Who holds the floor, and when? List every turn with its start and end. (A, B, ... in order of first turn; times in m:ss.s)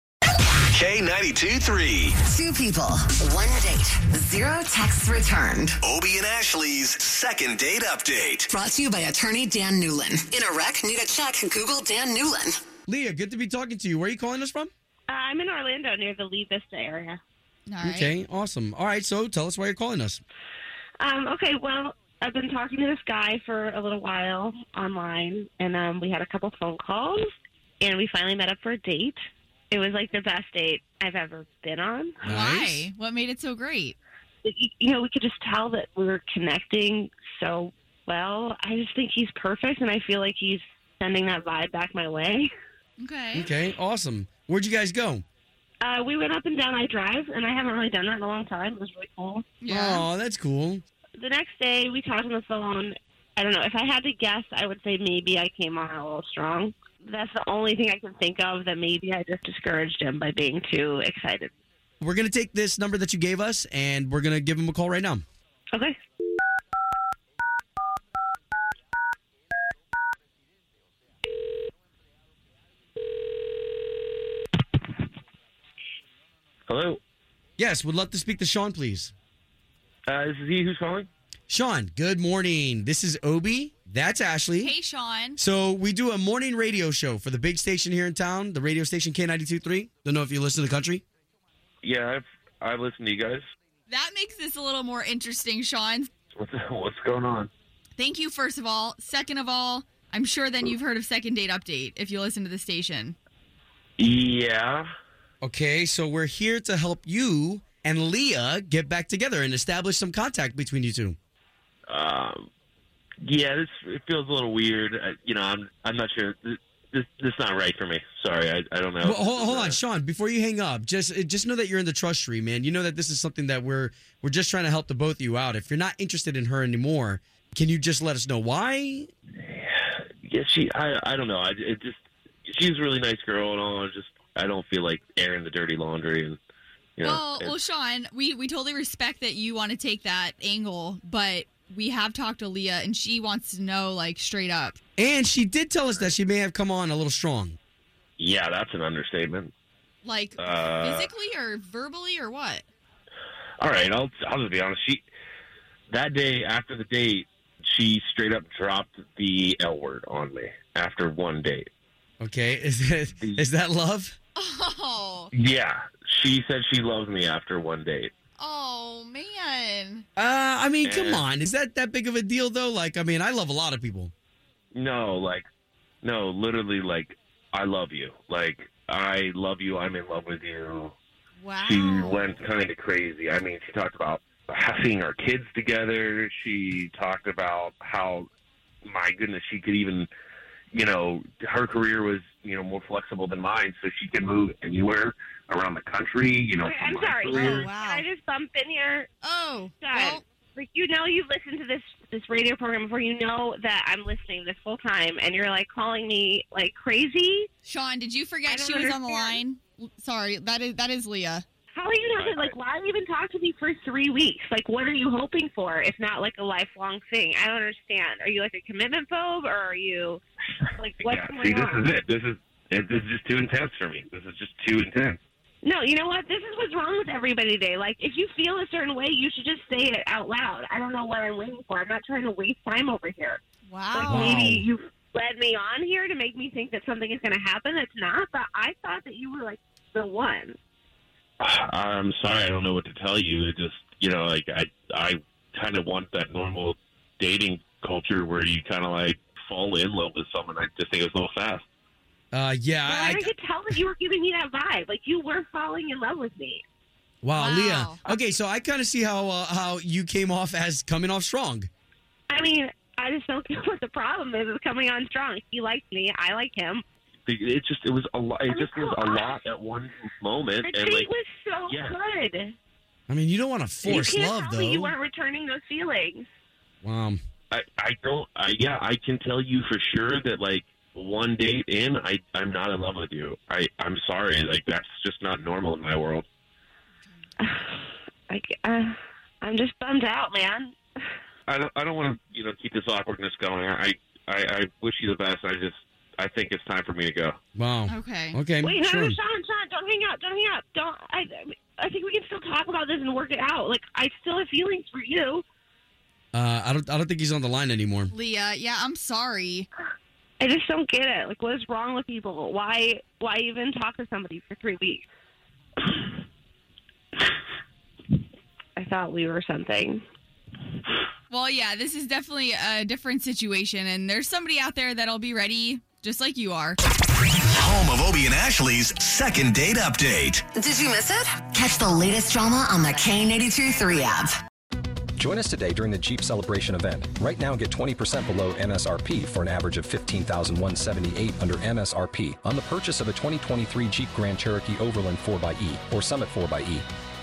0:00.7-0:02.2 A
0:02.2-0:05.8 B
0:05.8-0:08.5 A
0:08.5-0:12.6 B
0:12.9-0:14.7 C
0:15.1-0:17.2 D
0:17.7-0:18.1 E
0:17.8-0:20.2 C
0:21.0-0:29.2 D
0:29.7-0:32.3 D
0:32.2-0:32.8 C
0:32.3-0:33.9 E
0:34.4-0:42.5 D
0:43.0-0:43.5 E
0:43.3-0:45.2 C
0:45.8-0:49.5 D
0:49.6-0:50.0 E
0:49.7-0:50.8 C
0:51.2-1:01.5 D
1:02.0-1:05.2 C
1:16.7-1:17.0 F
1:17.6-1:19.1 C
1:20.1-1:21.1 F
1:21.5-1:24.7 C
1:24.6-1:25.4 E
1:25.4-1:31.0 C
1:31.8-1:33.4 F
1:33.9-1:36.1 E
1:36.3-1:37.5 F
1:38.0-1:43.2 E
1:44.0-1:44.8 F
1:45.4-1:51.2 C
1:51.9-1:52.5 F
1:53.2-1:59.8 F
1:59.0-2:09.1 C
2:09.4-2:16.4 F
2:17.0-2:17.5 F
2:17.0-2:24.8 E
2:25.0-2:27.6 C
2:28.2-2:29.5 F
2:30.0-2:32.6 E
2:30.4-2:31.1 F
2:33.6-2:35.0 F
2:35.9-2:41.7 F
2:42.2-2:44.1 C
2:43.1-2:43.5 F
2:44.4-2:45.3 E
2:45.3-2:48.1 F
2:48.4-2:50.0 E
2:50.2-2:54.1 C
2:50.8-2:51.3 F
2:54.7-2:55.5 F
2:56.0-3:01.0 F
3:01.4-3:02.4 E
3:01.6-3:08.3 F
3:08.8-3:10.1 F
3:10.7-3:17.7 F
3:16.6-3:19.1 D
3:17.3-3:18.0 E
3:19.2-3:20.2 E
3:19.8-3:27.5 D
3:27.6-3:31.4 E
3:28.4-3:29.4 D
3:31.7-3:40.2 D
3:32.2-3:32.6 F
3:40.8-3:41.8 D
3:41.0-3:45.2 F
3:45.6-4:00.6 D
3:53.7-3:54.4 E
3:54.0-3:54.7 C
4:01.4-4:11.6 F
4:12.3-4:13.3 C
4:12.8-4:16.6 D
4:17.2-4:21.7 C
4:17.3-4:18.0 E
4:22.3-4:26.8 D
4:27.2-4:31.1 F
4:28.4-4:29.5 D
4:30.6-4:32.5 D
4:31.7-4:32.0 F
4:33.1-4:34.9 C
4:33.8-4:36.3 D
4:36.8-4:37.2 C
4:37.5-4:46.2 F
4:47.4-4:50.7 D
4:51.5-4:57.4 F
4:57.6-4:59.2 C
4:57.9-4:58.4 E
4:58.6-5:05.4 D
5:06.3-5:08.1 C
5:08.1-5:09.7 E
5:10.4-5:15.0 D
5:18.8-5:20.0 D
5:21.3-5:26.8 E
5:27.5-5:30.4 A
5:30.5-5:34.4 B
5:35.2-5:46.8 G